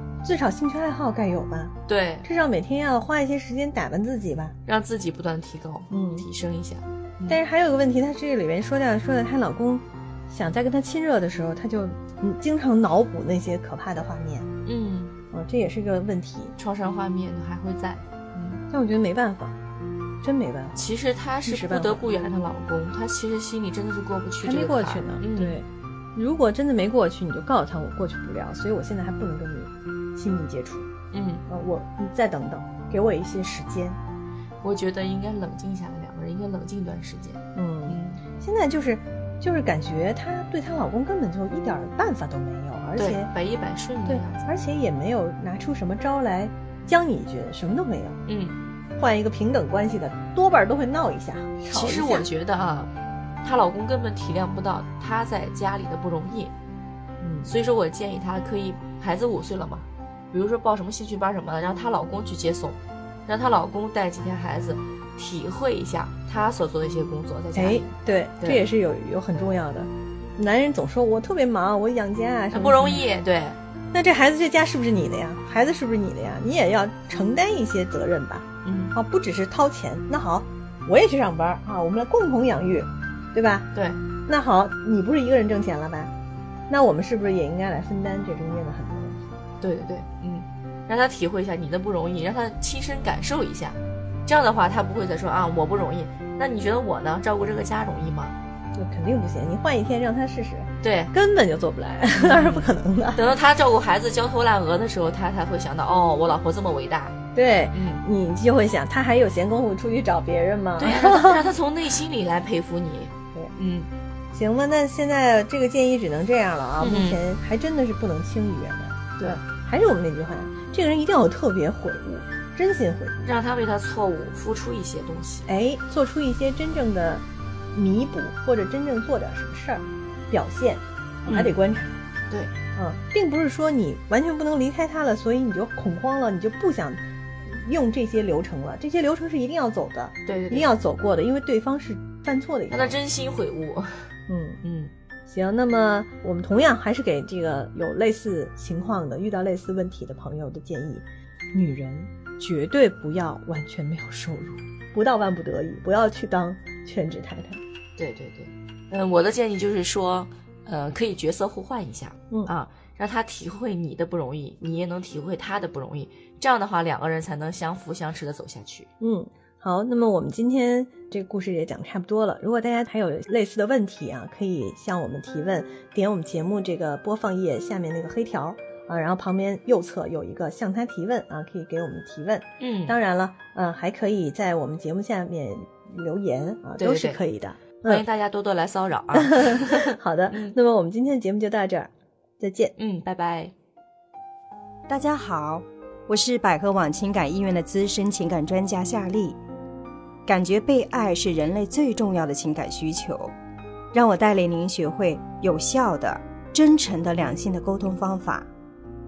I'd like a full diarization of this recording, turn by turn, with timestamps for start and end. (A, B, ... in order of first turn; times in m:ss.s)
0:00.2-0:04.6 A
0:01.9-0:02.3 B
0:04.7-0:07.4 B
0:05.9-0:06.2 A
0:07.3-0:14.5 A
0:14.6-0:15.1 B
0:15.3-0:16.5 A
0:16.6-0:18.6 B
0:18.7-0:19.6 A
0:20.2-0:20.8 A
0:20.8-0:25.6 B
0:21.4-0:22.1 A
0:24.4-0:30.9 A
0:31.1-0:31.4 B
0:31.5-0:34.0 A
0:34.6-0:38.2 B
0:37.6-0:43.3 A
0:43.0-0:44.5 B
0:44.1-0:48.2 A
0:48.3-0:48.6 B
0:49.0-0:52.3 A
0:51.7-0:52.9 B
0:53.4-0:56.5 B
0:57.2-0:57.5 A
0:57.4-1:08.6 B
1:07.5-1:13.0 A
1:12.5-1:13.6 B
1:13.9-1:23.7 A
1:18.6-1:19.0 B
1:23.7-1:24.0 B
1:24.3-1:26.1 A
1:26.7-1:29.4 A
1:29.6-1:38.4 B
1:38.8-1:43.4 A
1:40.8-1:41.1 B
1:42.2-1:47.2 B
1:47.3-1:51.5 A
1:47.7-1:48.0 B
1:50.8-1:53.9 B
1:54.3-2:03.2 A
1:56.8-1:57.2 B
2:03.2-2:05.5 B
2:05.5-2:12.0 A
2:11.3-2:11.5 B
2:12.8-2:23.0 A
2:20.3-2:20.7 B
2:22.7-2:23.9 B
2:24.3-2:24.6 A
2:24.6-2:24.9 B
2:25.3-2:37.6 A
2:38.0-2:48.9 B
2:49.0-3:08.0 A
3:02.6-3:03.0 B
3:06.8-3:07.2 B
3:07.8-3:10.6 B
3:09.1-3:12.8 A
3:12.8-3:13.5 B
3:14.9-3:19.4 C
3:20.3-3:23.4 C
3:23.9-3:28.5 C